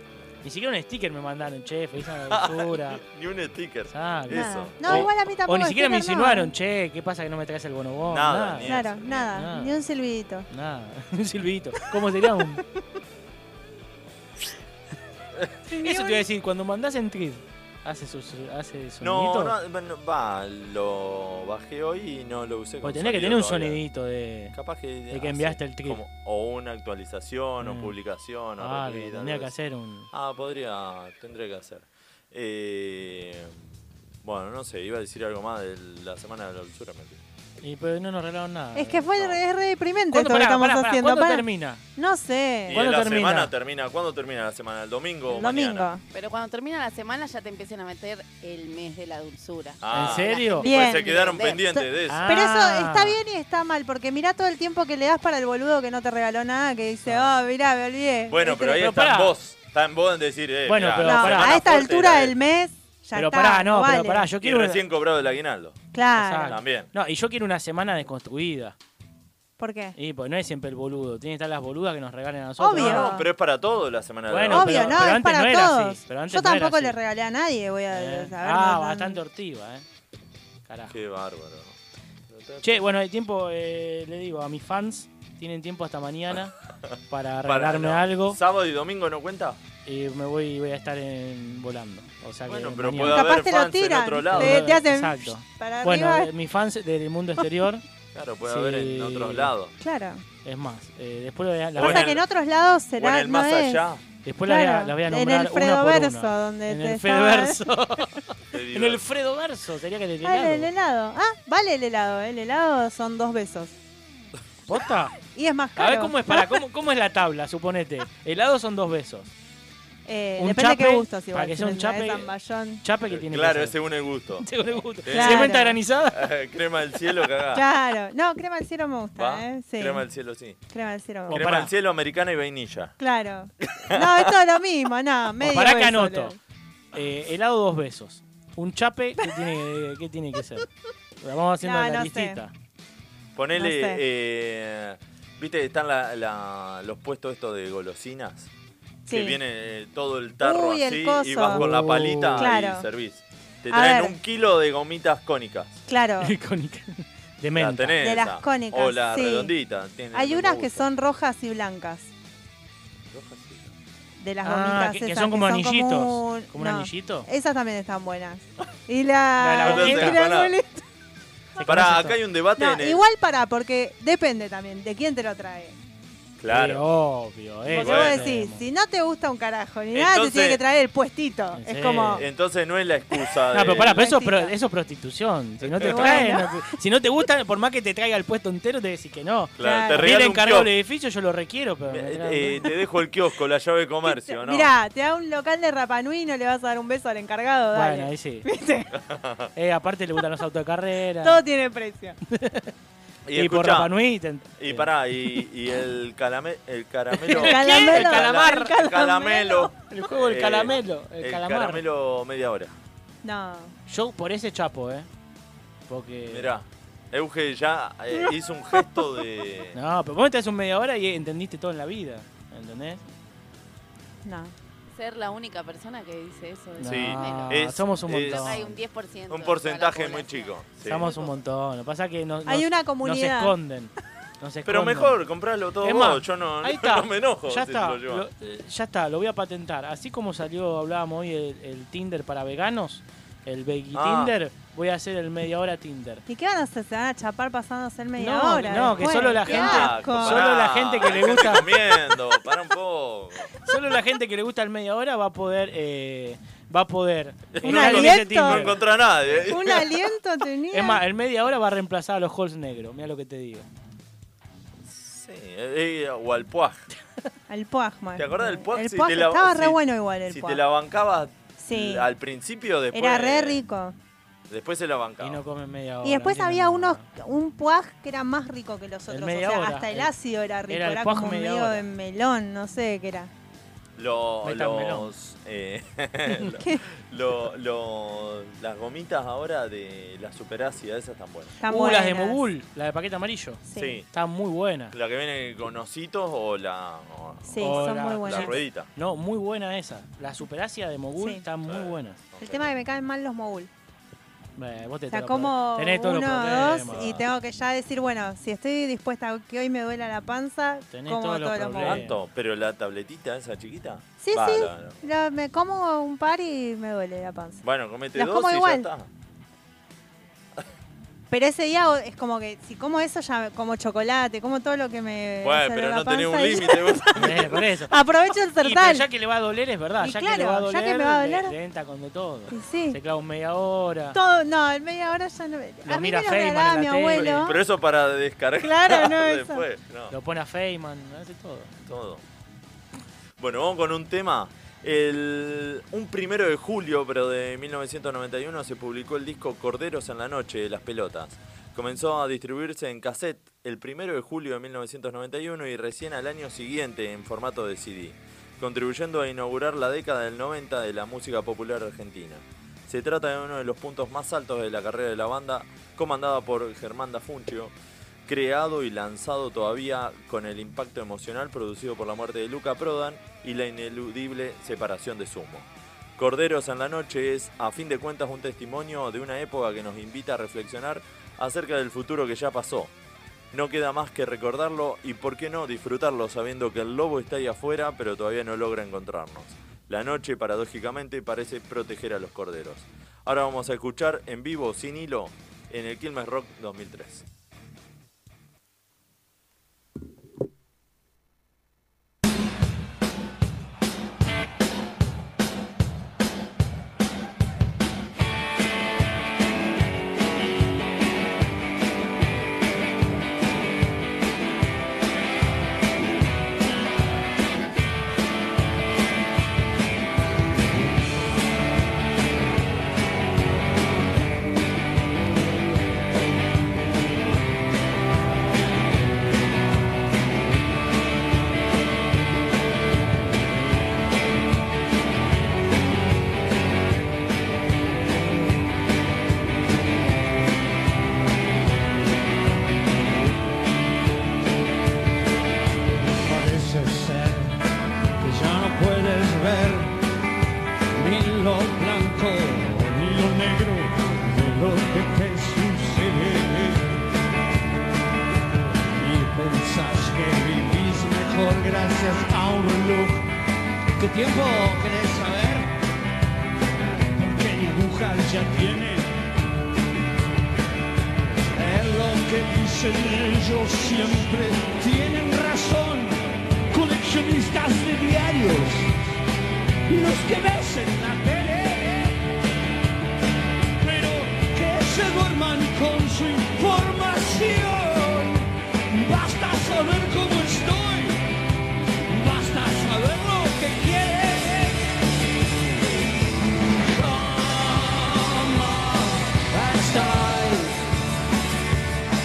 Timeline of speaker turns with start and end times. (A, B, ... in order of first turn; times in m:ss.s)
0:00.4-0:03.0 A
0:02.3-0:05.1 B
0:03.9-0:08.8 A
0:04.3-0:06.5 C
0:08.1-0:09.3 B
0:08.7-0:10.5 C
0:09.3-0:09.8 A
0:10.5-0:12.6 A
0:15.7-0:16.2 C
0:15.8-0:19.6 A
0:19.0-0:23.8 B
0:22.8-0:24.6 A
0:24.5-0:29.5 B
0:25.1-0:26.0 A
0:27.6-0:27.9 A
0:28.6-0:30.1 A
0:30.1-0:33.6 B
0:34.2-0:37.2 B
0:37.6-0:39.4 A
0:38.8-0:41.4 C
0:40.1-0:41.8 A
0:42.0-0:42.8 C
0:42.7-0:43.5 A
0:42.7-0:45.9 B
0:45.3-0:46.0 C
0:46.1-0:51.2 D
0:49.8-0:52.3 B
0:49.9-0:50.7 A
0:50.6-0:59.0 C
0:52.1-0:53.2 A
0:57.0-0:57.3 A
0:58.3-1:02.4 B
0:58.7-0:59.3 A
1:00.7-1:01.5 A
1:01.0-1:04.3 C
1:03.2-1:04.8 A
1:04.4-1:05.8 B
1:05.9-1:06.6 C
1:06.1-1:08.8 A
1:06.5-1:06.9 B
1:09.6-1:10.0 C
1:10.0-1:13.2 A
1:12.6-1:13.3 C
1:12.8-1:15.1 B
1:14.3-1:17.0 A
1:14.5-1:19.2 C
1:17.9-1:19.8 A
1:20.7-1:21.0 A
1:20.9-1:21.8 B
1:22.3-1:22.8 B
1:22.6-1:26.6 A
1:27.1-1:28.4 A
1:27.4-1:29.6 B
1:29.9-1:33.3 A
1:32.5-1:34.6 B
1:33.0-1:36.3 C
1:34.3-1:37.8 A
1:38.1-1:39.7 B
1:38.4-1:39.5 A
1:39.8-1:40.2 C
1:40.4-1:42.2 A
1:41.8-1:42.2 B
1:41.8-1:43.8 C
1:43.0-1:44.0 B
1:44.2-1:50.7 A
1:44.5-1:47.6 C
1:48.5-1:49.0 B
1:50.2-1:53.7 C
1:54.7-1:55.2 A
1:55.3-1:56.6 C
1:55.8-1:59.3 A
2:00.1-2:02.8 C
2:00.4-2:03.7 A
2:03.1-2:04.4 B
2:04.4-2:06.2 A
2:05.0-2:07.6 B
2:05.1-2:05.8 C
2:07.5-2:10.0 C
2:09.2-2:10.6 B
2:10.7-2:11.5 C
2:11.3-2:11.7 A
2:11.3-2:13.0 B
2:13.0-2:16.4 C
2:13.6-2:14.3 B
2:15.4-2:16.4 A
2:16.9-2:20.7 A
2:21.2-2:22.5 A
2:21.6-2:22.4 C
2:23.4-2:28.5 B
2:23.6-2:24.0 C
2:29.1-2:29.4 C
2:29.1-2:35.8 B
2:30.4-2:31.7 C
2:31.4-2:32.5 A
2:32.4-2:32.9 C
2:33.7-2:34.2 C
2:35.9-2:36.3 C
2:36.2-2:38.0 A
2:37.6-2:40.9 B
2:38.0-2:39.5 C
2:40.1-2:42.1 C
2:43.1-2:43.7 B
2:44.2-2:50.8 C
2:44.4-2:47.3 A
2:49.4-2:50.2 A
2:49.6-2:50.6 B
2:51.6-2:52.2 A
2:51.6-2:53.0 B
2:52.6-2:55.8 C
2:56.4-2:56.8 B
2:56.5-2:58.6 A
2:57.7-2:58.3 B
2:57.7-3:02.2 C
2:59.9-3:00.6 B
3:01.5-3:02.2 A
3:02.2-3:04.0 B
3:03.5-3:12.7 A
3:03.9-3:04.5 C
3:05.6-3:06.3 B
3:05.8-3:06.5 C
3:09.6-3:10.7 B
3:09.6-3:10.1 C
3:11.9-3:14.7 B
3:14.1-3:18.9 C
3:17.7-3:18.5 A
3:18.9-3:19.5 B
3:19.6-3:21.4 A
3:21.2-3:22.2 C
3:22.3-3:22.7 A
3:23.3-3:23.9 B
3:23.3-3:25.4 A
3:24.6-3:32.7 B
3:27.1-3:28.8 A
3:27.4-3:29.7 C
3:29.9-3:31.8 A
3:33.2-3:33.7 C
3:33.9-3:35.1 A
3:35.9-3:36.5 A
3:36.3-3:39.8 B
3:39.8-3:43.0 A
3:44.2-3:44.5 C
3:44.9-3:51.4 D
3:46.8-3:48.8 A
3:46.8-3:48.6 B
3:49.3-3:51.1 B
3:50.8-3:55.2 A
3:52.5-3:53.5 C
3:54.6-3:58.3 B
3:55.8-4:06.2 A
4:03.9-4:04.3 B
4:06.3-4:10.5 C
4:08.2-4:11.7 A
4:08.8-4:13.5 B
4:13.6-4:18.8 A
4:17.5-4:19.9 B
4:17.6-4:18.8 C
4:19.5-4:21.0 C
4:20.7-4:23.7 A
4:24.9-4:26.9 B
4:27.5-4:30.6 C
4:28.2-4:33.6 B
4:31.6-4:32.1 C
4:32.9-4:34.0 C
4:34.5-4:35.4 B
4:35.2-4:37.0 A
4:36.0-4:43.3 C
4:39.1-4:40.1 A
4:40.7-4:41.9 A
4:44.0-4:51.5 B
4:44.4-4:45.1 A
4:46.5-4:46.8 C
4:51.6-4:52.4 C
4:51.6-4:55.0 A
4:53.7-4:54.0 C
4:53.8-4:54.1 B
4:54.9-4:58.9 B
4:57.5-4:58.6 C
4:57.6-5:02.2 A
5:01.2-5:01.4 C
5:01.7-5:02.7 B
5:02.4-5:03.7 C
5:04.6-5:07.2 A
5:05.1-5:12.0 C
5:06.8-5:07.2 B
5:10.9-5:12.2 A
5:11.8-5:15.0 B
5:14.2-5:17.6 C
5:17.6-5:19.1 B
5:18.1-5:18.9 C
5:21.3-5:27.2 C
5:25.4-5:27.6 B
5:27.2-5:28.0 A
5:27.9-5:29.1 C
5:28.6-5:34.2 A
5:30.0-5:31.5 C
5:32.5-5:33.0 C
5:34.1-5:37.6 C
5:35.8-5:37.5 A
5:37.2-5:40.1 B
5:38.6-5:39.6 C
5:40.1-5:41.7 A
5:41.8-5:42.2 B
5:43.4-6:07.7 B
6:08.3-6:22.9 B
6:23.5-6:37.2 B
7:26.2-7:27.6 E
7:28.2-7:30.0 E
7:31.0-7:36.9 E
7:38.9-7:43.2 E
7:44.0-7:45.7 E
7:47.2-7:49.1 E
7:51.5-7:58.9 E
7:59.9-8:02.2 E
8:03.8-8:11.2 E
8:12.1-8:14.9 E
8:16.8-8:20.8 E